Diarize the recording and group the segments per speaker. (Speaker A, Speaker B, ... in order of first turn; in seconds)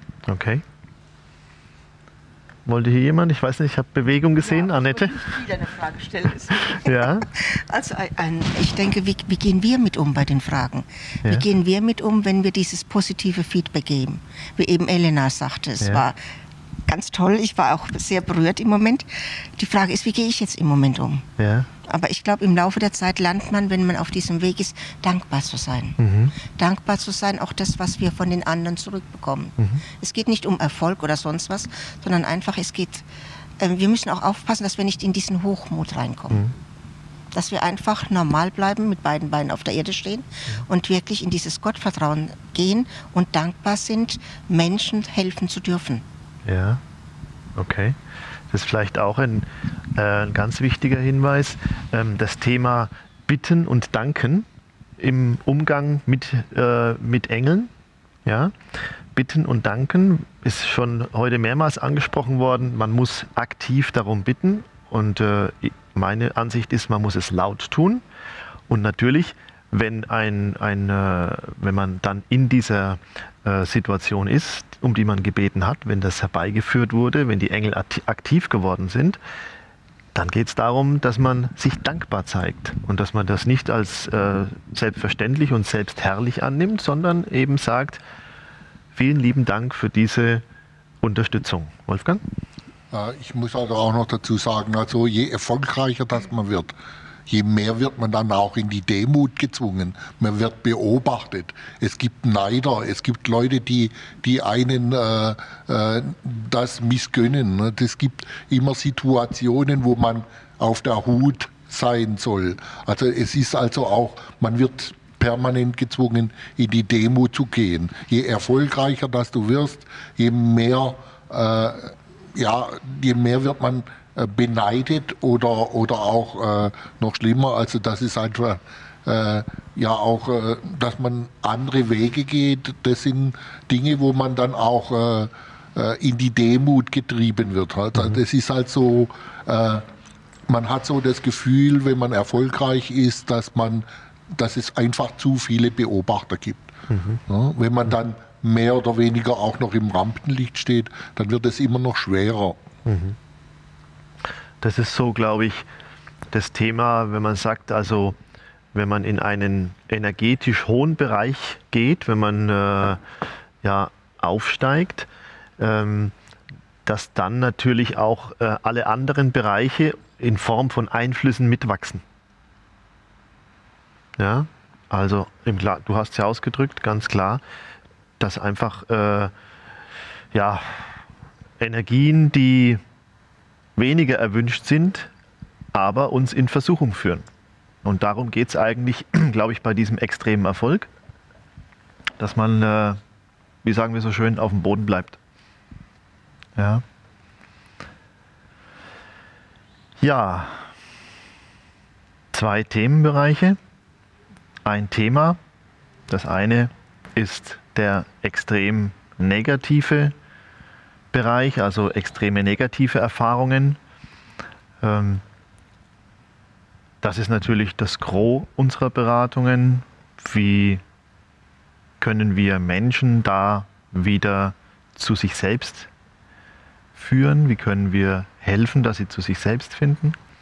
Speaker A: 0.3-0.6, 2.7-5.2, 6.7-7.3, 21.4-21.7, 26.0-26.4, 46.5-46.8, 47.6-48.0, 48.5-54.5, 55.0-57.7, 58.2-58.6, 59.1-68.0, 68.7-79.2, 80.2-88.0, 89.0-90.5, 91.0-92.2, 146.9-147.2, 152.8-153.2, 154.6-155.7, 156.3-158.2, 158.7-163.0, 163.6-166.1, 166.9-172.0, 174.2-177.4, 178.2-179.3, 180.3-180.9, 181.6-182.8, 183.8-185.1, 185.7-187.3, 187.8-190.9, 192.2-193.0, 193.6-195.2, 196.6-196.8, 200.0-200.7, 202.3-203.6, 204.7-205.4, 206.1-210.1, 211.1-213.8, 214.8-215.2, 217.0-220.8, 222.0-225.9, 227.0-230.2
Speaker B: 4.4-16.2, 16.9-21.2, 21.9-26.0, 26.6-33.0, 33.6-36.5, 37.3-46.0
Speaker C: 92.9-96.8, 97.3-139.9, 140.5-146.7, 147.3-152.6